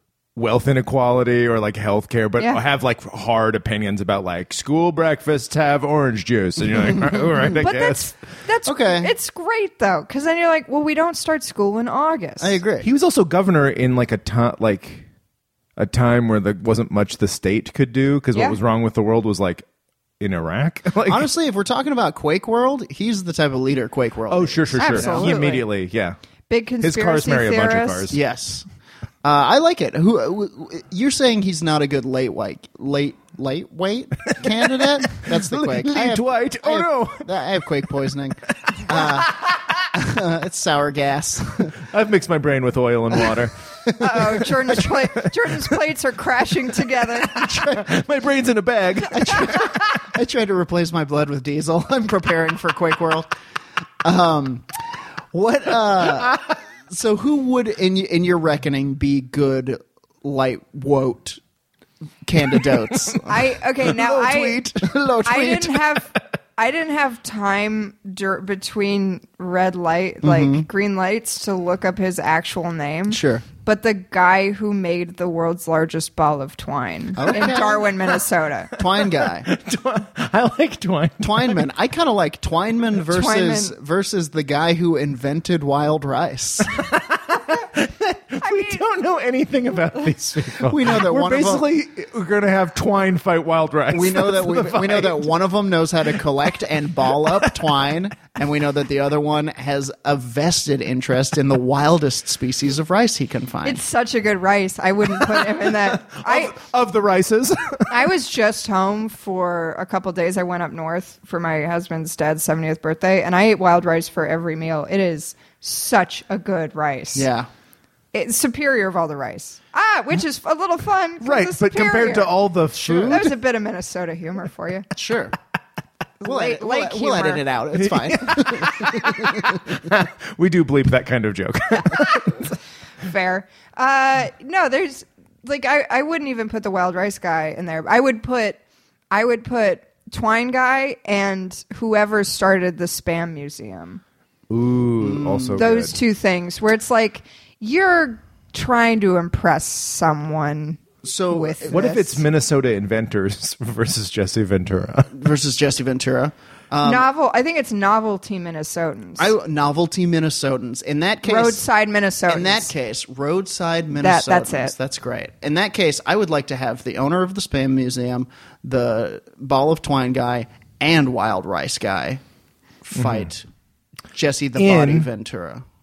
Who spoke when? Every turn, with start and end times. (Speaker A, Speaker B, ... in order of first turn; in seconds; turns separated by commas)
Speaker A: 0.4-8.1, Speaker B: 7.0-7.5, Speaker C: 7.6-12.6, Speaker B: 8.7-9.1, Speaker B: 12.4-12.9, Speaker A: 12.8-15.1, Speaker A: 15.8-19.6, Speaker A: 20.2-21.3, Speaker B: 21.1-25.4, Speaker A: 24.3-26.2, Speaker C: 24.8-25.7, Speaker C: 26.5-28.2, Speaker A: 26.8-28.2, Speaker B: 28.1-28.7, Speaker B: 29.2-39.4, Speaker A: 34.3-37.3, Speaker A: 38.9-39.6, Speaker B: 39.9-41.8, Speaker A: 41.9-43.6, Speaker B: 43.2-44.8, Speaker C: 44.0-47.4, Speaker A: 44.4-45.7, Speaker B: 47.3-47.9, Speaker A: 47.4-50.0, Speaker B: 49.1-53.3, Speaker B: 54.0-61.4, Speaker B: 62.2-65.8, Speaker C: 63.3-64.7, Speaker A: 63.8-64.8, Speaker C: 65.2-78.7, Speaker B: 70.2-70.7, Speaker B: 73.1-73.5, Speaker B: 77.2-78.1, Speaker A: 77.3-78.2, Speaker B: 78.8-79.5, Speaker A: 78.8-81.7, Speaker B: 81.2-86.7, Speaker C: 83.1-83.7, Speaker A: 86.8-95.3, Speaker C: 88.4-88.8, Speaker B: 90.6-91.7, Speaker B: 93.9-103.8, Speaker A: 97.2-97.5, Speaker C: 103.6-106.5, Speaker A: 105.2-108.0, Speaker C: 107.9-117.3, Speaker B: 117.1-117.5, Speaker C: 118.1-122.3, Speaker A: 121.2-123.4, Speaker B: 122.8-123.3, Speaker C: 123.1-124.9, Speaker B: 125.0-125.4, Speaker C: 126.2-127.4, Speaker B: 126.2-129.9, Speaker A: 127.8-132.5, Speaker C: 133.0-138.6, Speaker C: 139.1-144.0, Speaker A: 144.5-146.0, Speaker B: 145.0-145.6, Speaker C: 145.6-152.2, Speaker B: 151.0-151.8, Speaker A: 151.7-155.1, Speaker B: 155.1-157.1, Speaker C: 156.8-159.3, Speaker B: 159.2-161.6, Speaker C: 161.2-162.7, Speaker B: 162.3-172.2, Speaker C: 164.0-164.7, Speaker B: 172.8-173.5, Speaker A: 172.9-173.3, Speaker B: 174.1-175.7, Speaker A: 174.6-175.1